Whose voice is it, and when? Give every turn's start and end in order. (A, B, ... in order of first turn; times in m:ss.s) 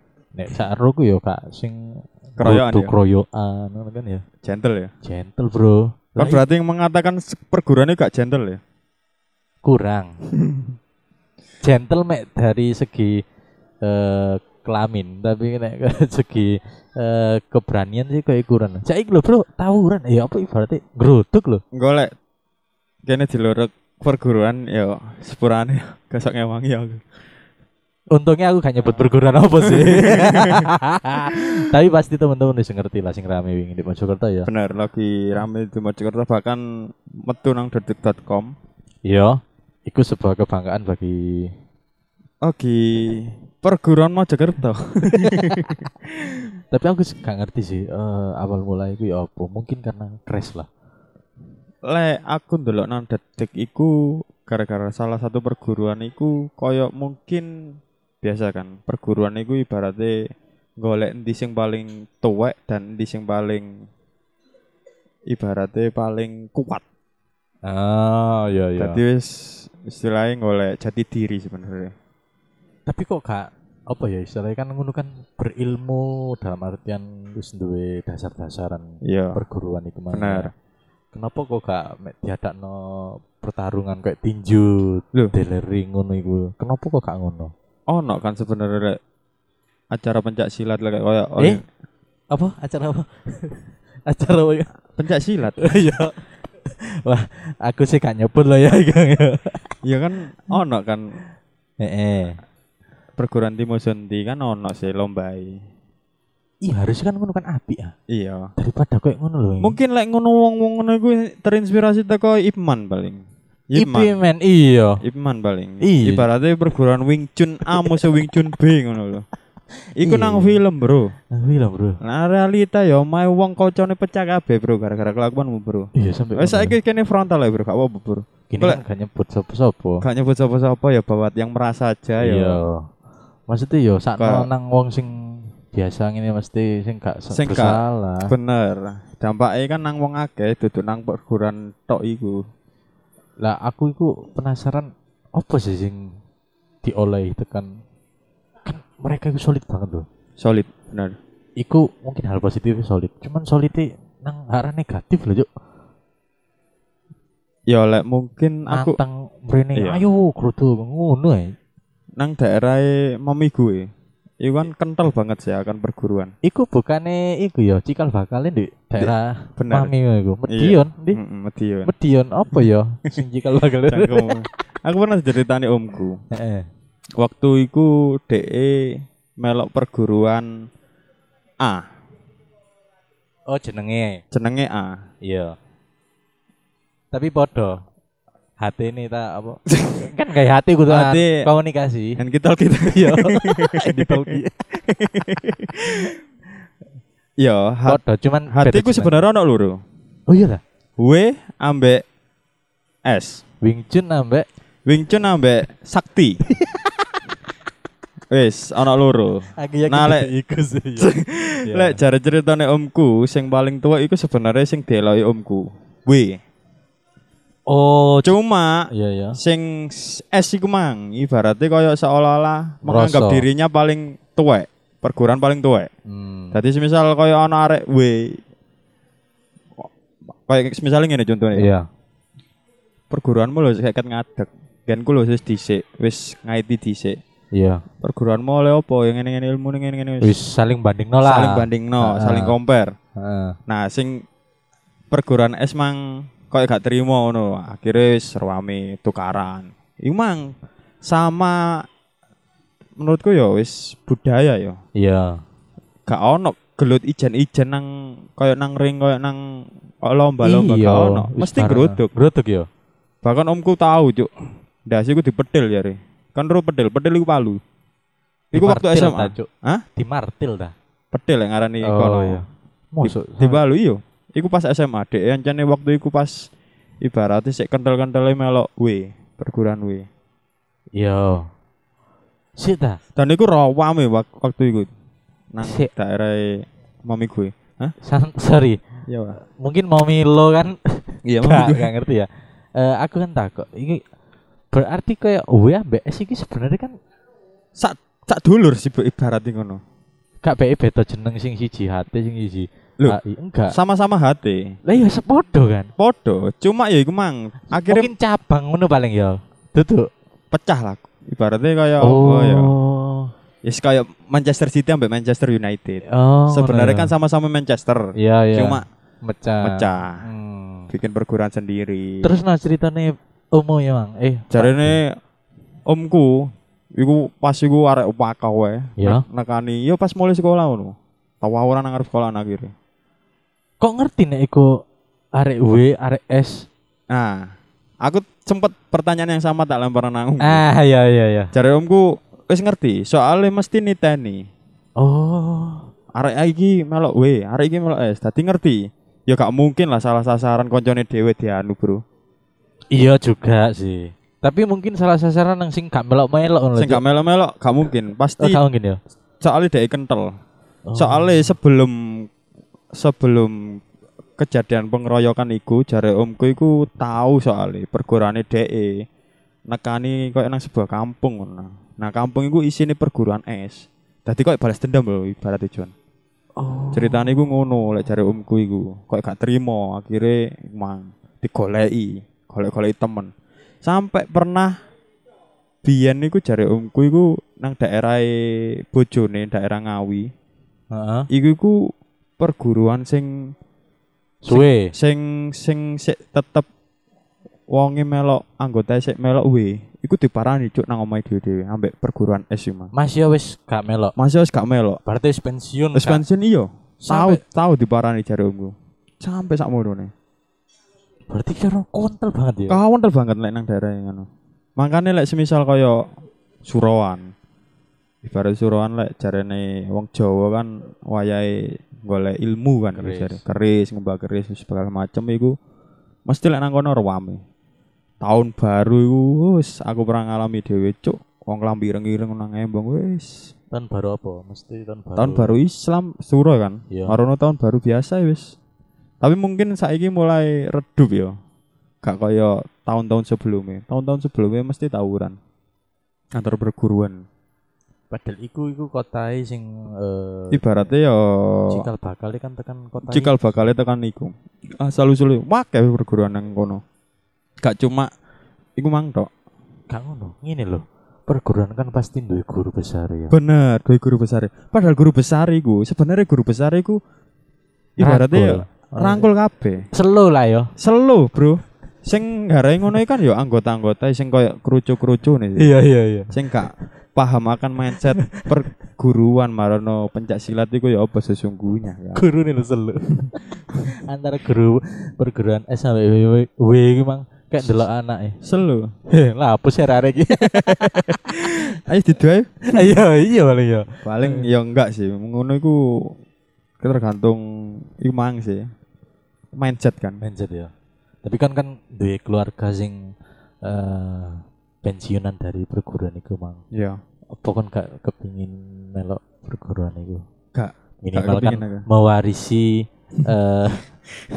0:00.3-0:04.2 A
0:02.4-0:02.9 B
0:04.4-0:04.9 B
0:05.0-0:06.4 A
0:06.2-0:08.6 B
0:09.6-0:10.1 A
0:10.4-0:10.7 B
0:11.6-0:13.2 A
0:13.8-0:21.6 A
0:21.7-0:22.1 B
0:23.0-0:27.0 B
0:28.1-0:34.5 A
0:29.6-0:30.7 B
0:31.3-0:31.7 B
0:34.4-0:36.6 B
0:37.2-0:38.5 B
0:39.0-0:41.5 A
0:42.4-0:46.4 B
0:45.1-0:45.7 A
0:46.7-0:50.7 A
0:51.9-1:00.2 B
1:00.8-1:03.7 B
1:05.3-1:06.8 B
1:07.6-1:09.0 A
1:08.8-1:11.9 B
1:12.9-1:20.5 A
1:19.0-1:19.4 B
1:20.1-1:20.5 B
1:21.1-1:27.5 A
1:27.9-1:29.0 B
1:29.9-1:31.6 B
1:32.3-1:34.7 A
1:34.9-1:35.7 B
1:35.6-1:39.7 A
1:39.8-1:41.1 B
1:41.8-1:42.4 A
1:43.2-1:45.6 B
1:46.6-1:47.9 A
1:48.1-1:48.5 B
1:48.6-1:49.8 A
1:49.6-1:54.2 B
1:53.8-1:55.0 A
1:55.0-1:59.3 B
1:55.8-1:56.2 A
1:57.7-1:58.1 A
2:00.0-2:01.1 B
2:00.0-2:00.6 A
2:01.3-2:02.0 A
2:02.0-2:08.8 B
2:06.0-2:06.8 A
2:08.5-2:10.0 A
2:10.0-2:12.6 B
2:12.2-2:12.9 A
2:13.5-2:18.3 A
2:14.2-2:14.4 B
2:17.3-2:22.4 B
2:23.4-2:26.1 A
2:26.8-2:27.7 A
2:28.6-2:30.1 A
2:30.4-2:31.2 B
2:31.6-2:35.5 A
2:37.7-2:39.0 B
2:38.7-2:41.5 A
2:39.8-2:40.0 B
2:42.2-2:43.9 B
2:44.4-2:46.3 B
2:46.4-2:51.2 A
2:49.0-2:49.9 B
2:50.5-2:51.9 B
2:51.8-2:54.4 A
2:53.9-2:56.2 B
2:56.3-2:56.6 A
2:57.2-3:00.5 B
3:03.5-3:04.2 A
3:04.3-3:05.0 B
3:05.2-3:05.5 A
3:07.1-3:07.8 A
3:08.6-3:12.2 A
3:10.9-3:11.4 B
3:12.2-3:16.1 B
3:12.9-3:14.6 A
3:17.4-3:18.0 B
3:17.8-3:19.2 A
3:18.5-3:19.8 B
3:20.3-3:20.6 A
3:21.0-3:22.0 B
3:23.1-3:23.4 B
3:23.6-3:24.4 A
3:24.8-3:26.4 B
3:28.3-3:30.3 B
3:29.6-3:31.1 A
3:31.0-3:36.4 B
3:31.6-3:32.0 A
3:37.7-3:38.3 A
3:38.2-3:45.9 B
3:38.9-3:39.4 A
3:42.8-3:43.4 A
3:46.1-3:46.6 A
3:46.5-3:48.4 B
3:50.4-3:51.7 B
3:51.6-3:51.8 A
3:53.1-3:57.2 B
3:57.5-3:57.8 A
3:58.0-4:00.3 B
4:00.2-4:02.6 A
4:01.2-4:02.9 B
4:03.2-4:03.6 A
4:03.7-4:04.2 B
4:05.1-4:10.5 B
4:11.1-4:11.8 B
4:13.0-4:14.8 B
4:15.0-4:15.4 A
4:16.1-4:19.4 B
4:20.0-4:22.1 B
4:20.4-4:22.7 A
4:23.2-4:24.3 B
4:24.9-4:27.6 B
4:28.5-4:30.7 A
4:28.5-4:29.8 B
4:31.1-4:32.4 B
4:31.8-4:33.6 A
4:33.0-4:36.4 B
4:37.0-4:40.1 B
4:41.0-4:41.5 A
4:42.6-4:43.0 A
4:43.2-4:44.9 B
4:45.5-4:47.9 B
4:45.6-4:45.9 A
4:48.0-4:48.8 A
4:49.1-4:49.4 B
4:49.6-4:54.0 A
4:51.2-4:51.9 B
4:54.7-4:56.9 A
4:57.8-4:59.8 B
5:00.4-5:03.8 A
5:03.7-5:04.7 B
5:04.9-5:05.9 A
5:06.0-5:08.1 B
5:07.8-5:10.1 A
5:10.5-5:12.7 B
5:12.0-5:13.3 A
5:13.6-5:18.0 B
5:16.1-5:17.1 A
5:18.2-5:20.9 A
5:18.5-5:18.8 B
5:19.6-5:20.2 B
5:20.9-5:22.3 B
5:22.2-5:25.0 A
5:24.5-5:25.2 B
5:25.9-5:32.7 B
5:29.0-5:29.2 A
5:33.8-5:34.7 A
5:35.4-5:36.6 A
5:37.1-5:37.5 B
5:38.0-5:40.6 B
5:40.4-5:41.5 A
5:41.5-5:44.4 B
5:45.0-5:45.8 A
5:46.1-5:52.0 B
5:52.9-5:57.0 A
5:56.8-5:58.6 B
5:58.4-5:59.0 A
5:59.4-6:00.3 B
6:00.9-6:01.5 A
6:01.0-6:02.2 B
6:03.0-6:03.6 B
6:04.4-6:09.0 B
6:09.7-6:15.9 B
6:16.6-6:17.5 A
6:16.9-6:23.3 B
6:23.8-6:24.7 B
6:25.8-6:28.3 B
6:28.9-6:30.3 B
6:30.9-6:31.2 A
6:31.3-6:31.9 B
6:32.4-6:33.5 B
6:34.4-6:34.9 A
6:34.5-6:36.7 B
6:37.7-6:42.9 B
6:42.9-6:44.1 A
6:44.2-6:45.0 B
6:45.0-6:46.2 A
6:45.9-6:50.1 B
6:47.0-6:47.4 A
6:51.3-6:52.8 A
6:52.7-6:56.0 B
6:56.6-6:57.2 B
6:58.2-7:05.6 B
7:02.9-7:03.4 A
7:06.3-7:07.4 B
7:08.2-7:13.5 B
7:13.7-7:15.6 A
7:15.2-7:18.5 B
7:16.9-7:17.2 A
7:19.2-7:21.3 B
7:22.0-7:25.4 B
7:26.3-7:27.2 B
7:28.1-7:30.9 A
7:30.5-7:31.8 B
7:31.7-7:33.3 A
7:33.1-7:36.8 B
7:37.6-7:38.1 B
7:38.8-7:39.3 B
7:39.9-7:43.4 A
7:43.3-7:47.0 B
7:48.0-7:49.3 A
7:48.0-7:49.8 B
7:49.9-7:50.7 A
7:50.8-7:55.7 B
7:55.6-7:56.8 A
7:56.3-8:02.2 B
7:58.2-7:58.5 A
8:02.1-8:03.4 A
8:04.0-8:08.4 A
8:08.4-8:08.9 B
8:09.1-8:11.7 A
8:10.4-8:12.9 B
8:12.7-8:14.5 A
8:14.0-8:16.1 B
8:16.8-8:18.6 B
8:19.6-8:20.2 B
8:20.2-8:20.7 A
8:21.2-8:23.0 A
8:23.6-8:26.6 A
8:26.7-8:27.0 B
8:27.4-8:30.2 A
8:30.5-8:31.8 B
8:31.0-8:33.9 A